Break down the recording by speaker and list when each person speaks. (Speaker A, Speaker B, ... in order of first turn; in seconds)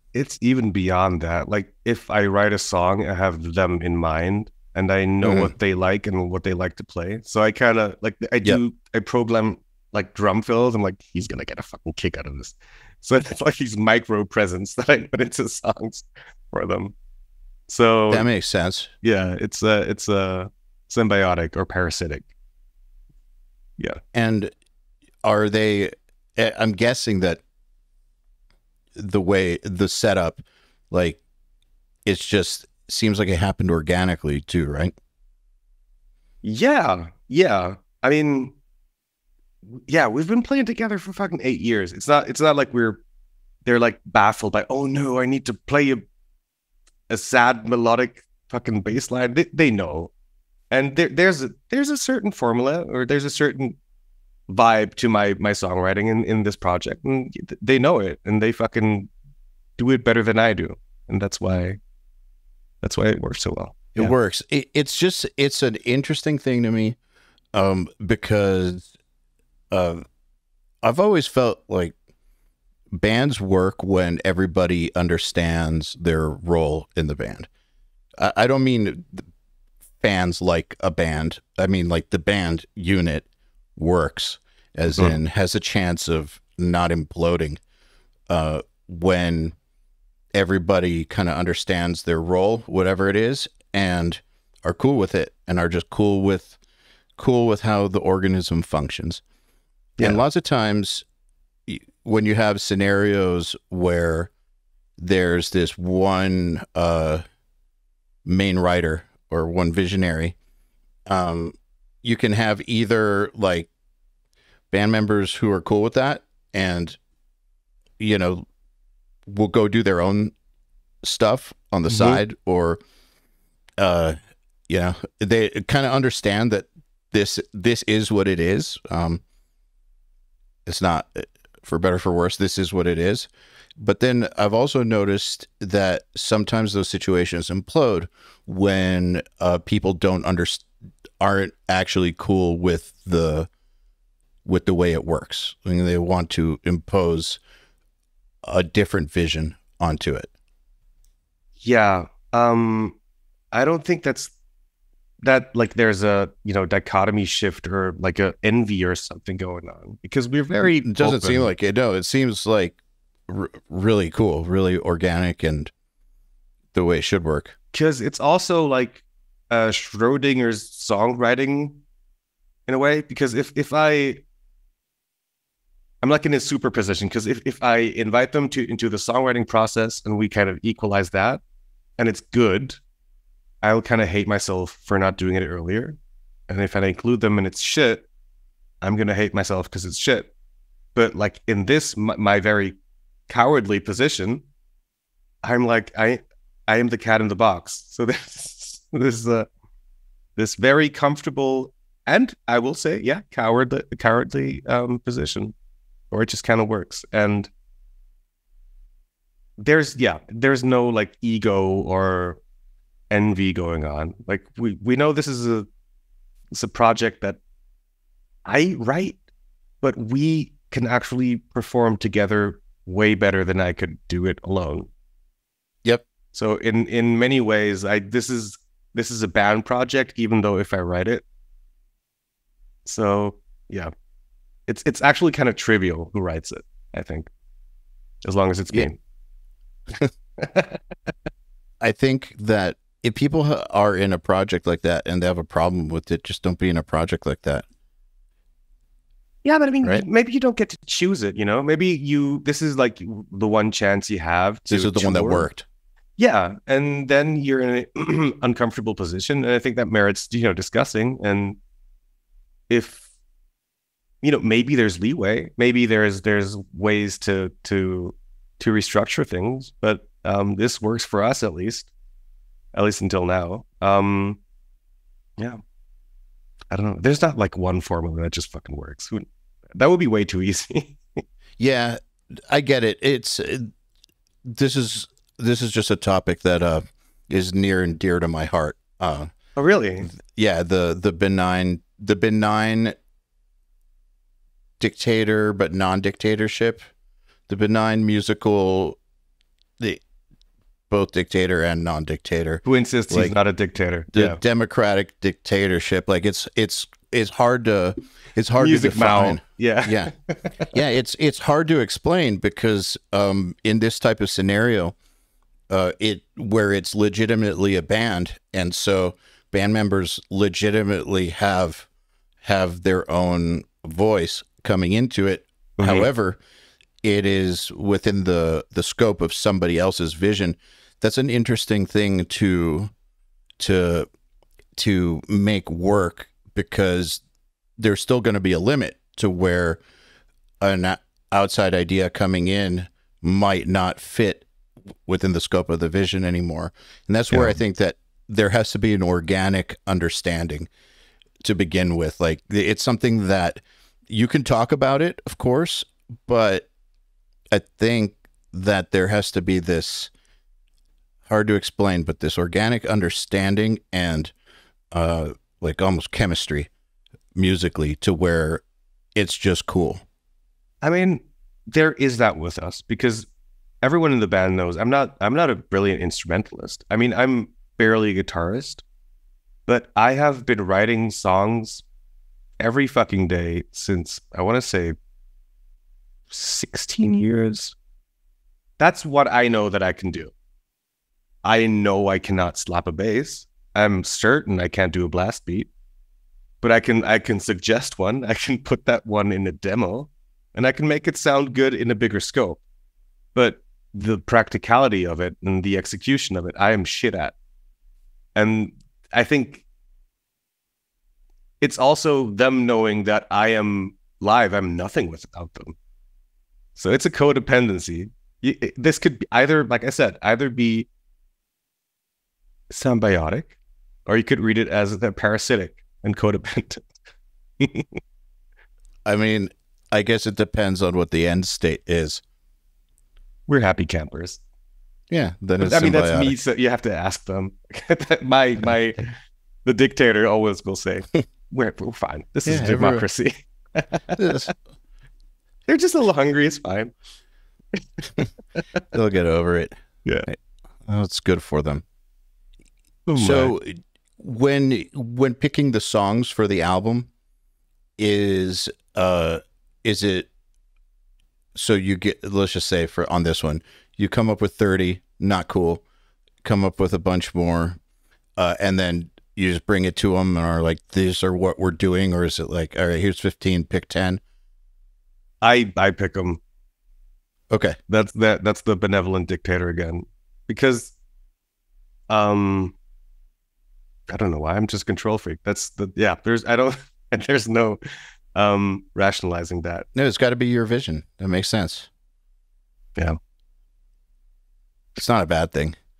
Speaker A: 0.1-16.9, 17.7-18.2, 19.0-22.3, 36.4-38.5, 39.7-43.0, 43.6-46.0, 47.1-50.1, 50.7-53.8, 54.5-59.1, 59.8-61.8, 62.8-64.1, 121.9-122.2, 151.6-152.9, 153.5-154.3, 155.2-161.5, 167.7-171.8, 172.7-174.2, 176.0-181.4, 182.0-182.8, 183.6-186.0, 186.5-188.1, 188.8-190.3, 190.9-192.8, 193.3-194.4, 195.4-199.5, 200.3-205.5, 206.1-207.5, 209.6-212.4, 213.1-215.7, 216.5-217.4, 218.4-219.2, 219.8-224.9, 226.3-231.2, 232.8-233.9, 234.7-237.3, 238.2-239.0, 240.4-241.1, 249.4-255.5, 256.2-261.6, 262.7-263.0, 264.2-271.9, 272.7-274.4, 276.7-281.2, 289.6-290.1, 302.6-304.4, 308.6-310.8, 325.8-326.1, 347.3-347.6, 370.8-373.3, 373.8-378.8, 379.7-381.8, 382.6-384.9, 386.3-387.7, 388.8-390.3, 391.4-395.7, 396.6-402.6, 403.3-407.3, 408.3-409.6, 411.6-415.8, 416.8-420.9, 422.7-423.5, 424.1-426.9, 427.6-428.0, 433.5-434.4, 435.6-439.1, 439.6-444.5, 445.7-446.9, 447.7-448.6, 453.1-453.5, 475.4-476.4, 477.9-480.9, 482.1-482.7, 484.1-487.8, 488.3-489.9
Speaker B: 5.2-5.5, 18.1-18.9, 24.1-24.5, 25.2-27.4, 28.9-31.2, 32.0-34.9, 64.0-67.0, 67.5-68.9, 69.7-70.0, 70.8-71.9, 72.9-77.5, 78.2-79.3, 80.0-87.6, 88.3-89.5, 90.3-96.5, 97.2-99.2, 100.0-101.0, 101.7-104.3, 105.0-107.2, 108.2-110.3, 111.1-113.7, 114.7-117.0, 118.0-118.5, 119.3-120.3, 121.0-122.8, 123.8-124.2, 124.7-129.2, 130.7-140.7, 141.2-143.5, 144.4-147.4, 148.4-150.3, 160.6-165.7, 166.7-167.5, 241.8-247.6, 254.7-255.6, 281.6-283.7, 284.4-289.3, 290.1-292.9, 294.8-296.9, 297.5-299.0, 300.9-303.3, 304.1-310.1, 310.7-314.9, 315.7-321.9, 322.4-326.4, 327.0-332.9, 333.6-334.1, 334.8-337.2, 337.8-339.8, 340.6-344.4, 345.1-350.7, 351.4-356.7, 357.5-360.1, 361.2-364.3, 364.9-366.7, 367.4-368.6, 369.1-370.0, 429.1-432.2, 435.1-436.3, 442.4-443.0, 444.1-444.5, 448.9-449.8, 450.3-451.8, 453.1-457.1, 458.0-460.3, 461.5-465.8, 466.4-467.8, 468.4-474.2, 477.5-477.8, 489.9-491.9, 494.9-495.8